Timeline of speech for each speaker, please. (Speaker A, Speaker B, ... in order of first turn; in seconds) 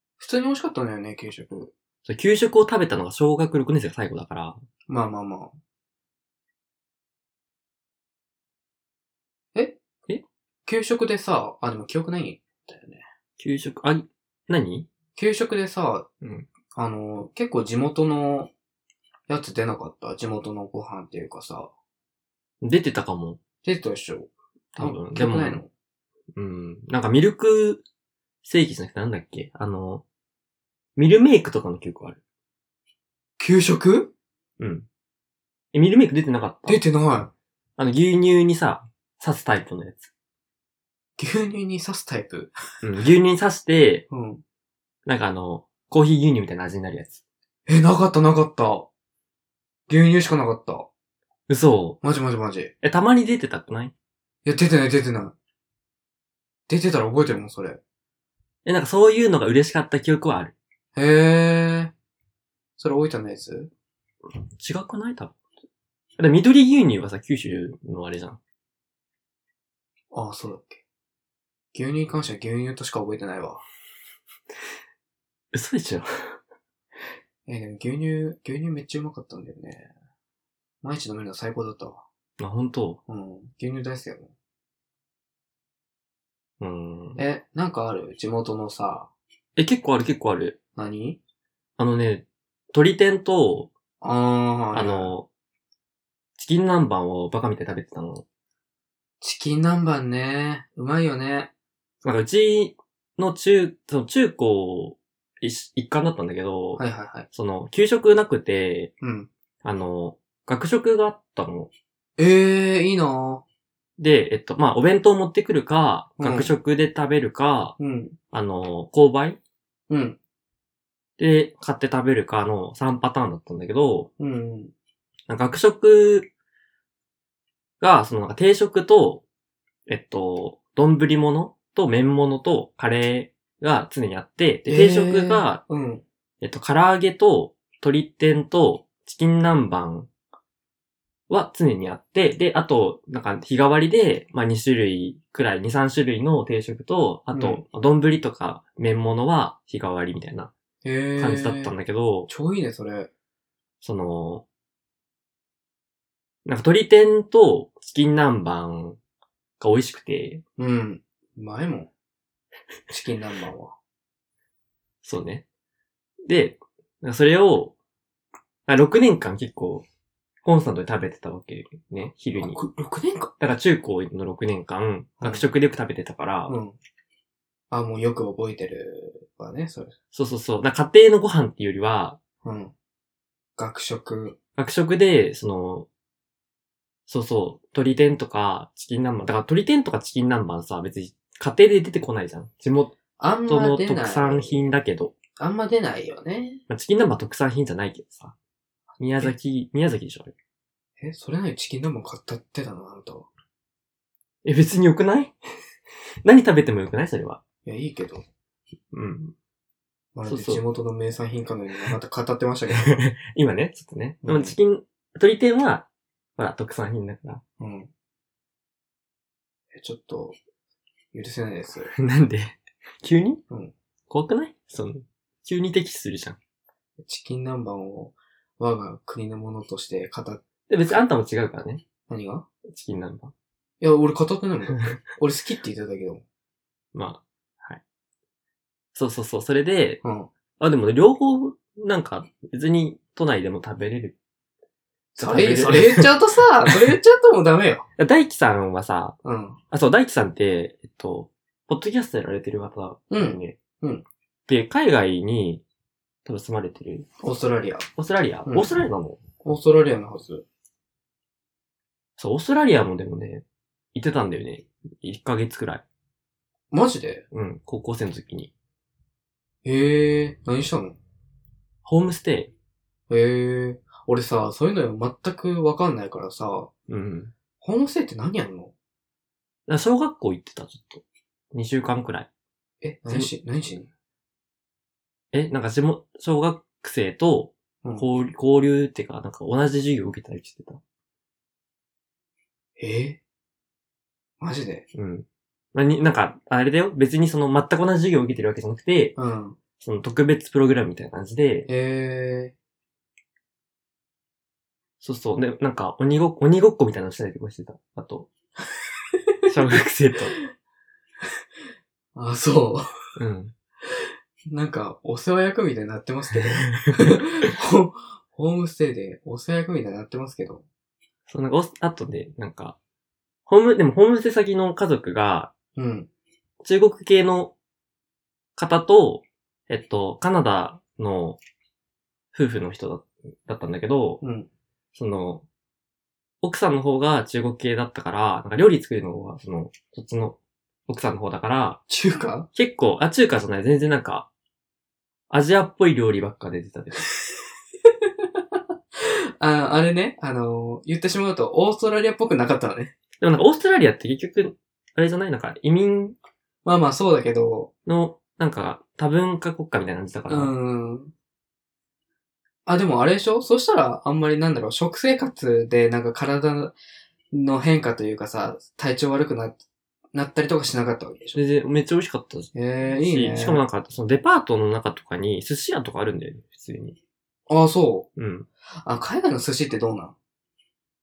Speaker A: 0.2-1.7, 4.9-5.5, 10.7-13.0, 15.1-16.1, 16.7-18.5, 19.3-21.7, 23.6-25.7, 33.4-34.1, 36.7-37.3, 41.2-42.5, 44.1-44.4, 47.7-48.9, 49.9-50.9, 52.0-52.7, 54.4-55.3, 56.7-57.8, 60.9-61.9, 62.8-63.7, 70.1-70.8, 71.7-73.6, 77.5-79.9, 80.8-82.0, 83.1-84.3, 87.2-89.1, 90.8-91.2, 94.0-95.1, 99.2-101.5, 106.8-107.2, 109.0-109.3, 112.2-113.4, 116.2-116.5, 117.8-118.2, 119.9-120.2, 124.2-124.7, 134.7-136.0, 147.3-147.6, 150.8-151.7, 152.3-153.1, 160.6-161.9, 162.9-163.7, 172.3-173.3, 175.2-175.5, 176.5-176.8, 177.7-179.9, 182.4-182.7, 183.6-184.4, 193.2-194.6, 195.4-196.6, 201.0-203.3, 207.6-208.2, 210.1-212.9, 214.2-214.5, 217.6-217.9, 219.7-220.4, 221.1-221.9, 227.0-230.4, 232.1-232.4, 233.8-236.2, 240.0-240.3, 245.1-247.8, 249.2-249.6, 253.1-254.0, 257.2-257.9, 258.4-258.7, 259.4-260.4, 266.7-267.2, 269.6-271.0, 273.1-276.7, 277.6-278.7, 282.8-283.9, 292.8-293.2, 294.4-294.8, 299.1-299.6, 301.7-302.5, 312.1-312.9, 314.5-320.6, 325.8-326.1, 334.2-334.5, 341.9-342.5, 349.0-352.9, 356.6-357.7, 360.3-361.1, 362.6-366.7, 367.3-369.6, 370.1-371.4, 372.5-373.6, 377.5-378.1, 378.8-380.1
Speaker B: 2.0-4.6, 13.4-14.9, 16.2-16.5, 22.6-23.4, 24.7-25.6, 26.3-27.8, 28.4-30.0, 30.9-32.2, 34.6-34.9, 35.7-36.8, 37.8-40.1, 42.8-44.0, 45.0-47.2, 51.5-52.0, 52.8-53.9, 58.6-60.5, 64.6-65.3, 66.2-68.4, 75.5-76.1, 82.4-83.0, 86.6-87.2, 89.5-90.6, 91.8-93.7, 94.7-95.3, 96.4-98.2, 102.0-106.8, 107.3-108.9, 109.6-111.7, 114.0-117.8, 118.3-119.4, 121.2-124.1, 125.3-126.2, 127.8-129.2, 129.9-135.6, 136.4-140.1, 141.3-150.5, 151.2-152.3, 153.8-154.4, 156.4-159.0, 159.6-160.4, 165.0-165.4, 166.2-167.7, 168.7-169.8, 170.4-172.6, 173.4-176.5, 180.1-182.2, 184.6-185.9, 187.1-192.9, 193.5-195.1, 196.7-198.3, 199.0-200.3, 204.4-205.3, 206.2-207.4, 208.9-209.3, 210.2-210.6, 212.7-217.4, 221.9-223.4, 224.1-226.4, 230.7-231.8, 232.7-233.3, 236.9-237.8, 238.9-240.0, 240.6-244.2, 245.2-246.1, 246.7-246.9, 248.0-249.2, 249.7-253.6, 254.5-255.6, 256.2-257.1, 258.0-259.2, 262.2-263.4, 263.9-265.8, 267.3-268.5, 271.8-272.5, 276.9-277.3, 279.7-282.3, 283.1-283.3, 285.3-290.8, 294.9-299.1, 299.8-301.7, 305.0-308.3, 309.5-310.3, 313.2-313.5, 316.4-317.2, 321.3-322.8, 323.5-325.5, 326.6-327.5, 328.6-331.4, 332.3-334.2, 334.9-335.4, 336.4-341.8, 342.5-344.3, 345.3-347.1, 353.2-356.1, 357.9-360.5, 371.3-377.0, 378.1-378.5